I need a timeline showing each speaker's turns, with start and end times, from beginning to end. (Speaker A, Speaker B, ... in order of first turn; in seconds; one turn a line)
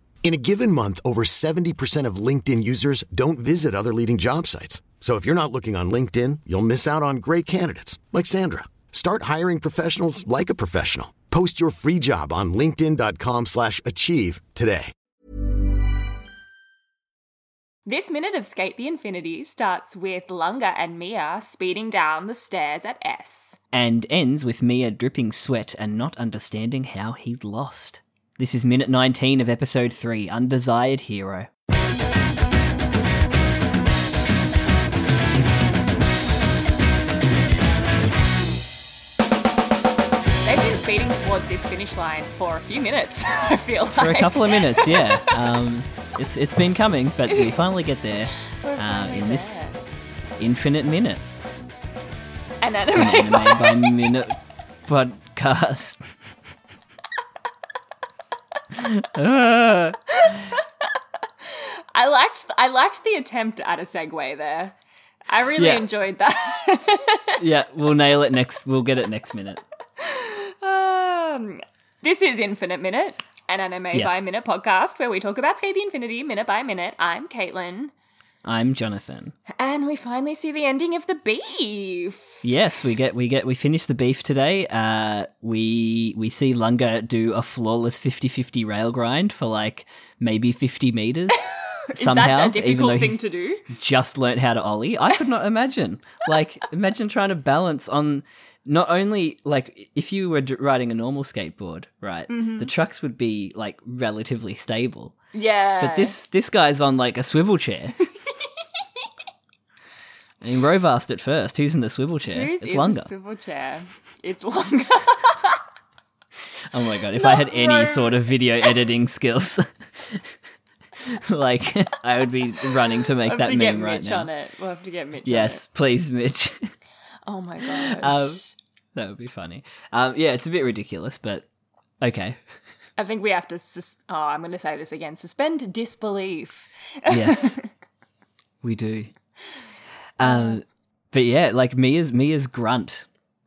Speaker A: 0.2-14.9
Speaker B: 17.9-23.6
Speaker C: 23.7-31.5
Speaker B: 40.5-45.3
Speaker C: 44.0-49.6
Speaker B: 48.5-49.8
Speaker C: 50.4-51.2
Speaker B: 52.6-54.1
Speaker C: 53.0-54.4
Speaker C: 54.9-56.2
Speaker C: 58.7-60.5
Speaker B: 60.2-60.6
Speaker B: 61.5-64.8
Speaker B: 65.3-67.4
Speaker C: 65.6-65.9
Speaker C: 67.4-69.6
Speaker B: 70.0-77.9
Speaker C: 73.9-74.2
Speaker C: 78.5-79.3
Speaker B: 79.5-82.5
Speaker C: 82.4-105.2
Speaker B: 91.3-93.7
Speaker B: 102.3-102.7
Speaker B: 105.3-106.1
Speaker C: 105.8-108.0
Speaker C: 110.4-113.1
Speaker B: 112.3-115.6
Speaker C: 116.7-120.3
Speaker B: 117.2-118.2
Speaker C: 121.0-124.3
Speaker B: 122.6-125.6
Speaker C: 125.3-126.7
Speaker B: 127.3-128.5
Speaker C: 127.8-128.4
Speaker C: 128.9-131.4
Speaker C: 132.0-132.4
Speaker B: 133.0-137.7
Speaker C: 137.1-137.6
Speaker C: 138.6-139.1
Speaker C: 140.2-143.1
Speaker B: 140.2-140.6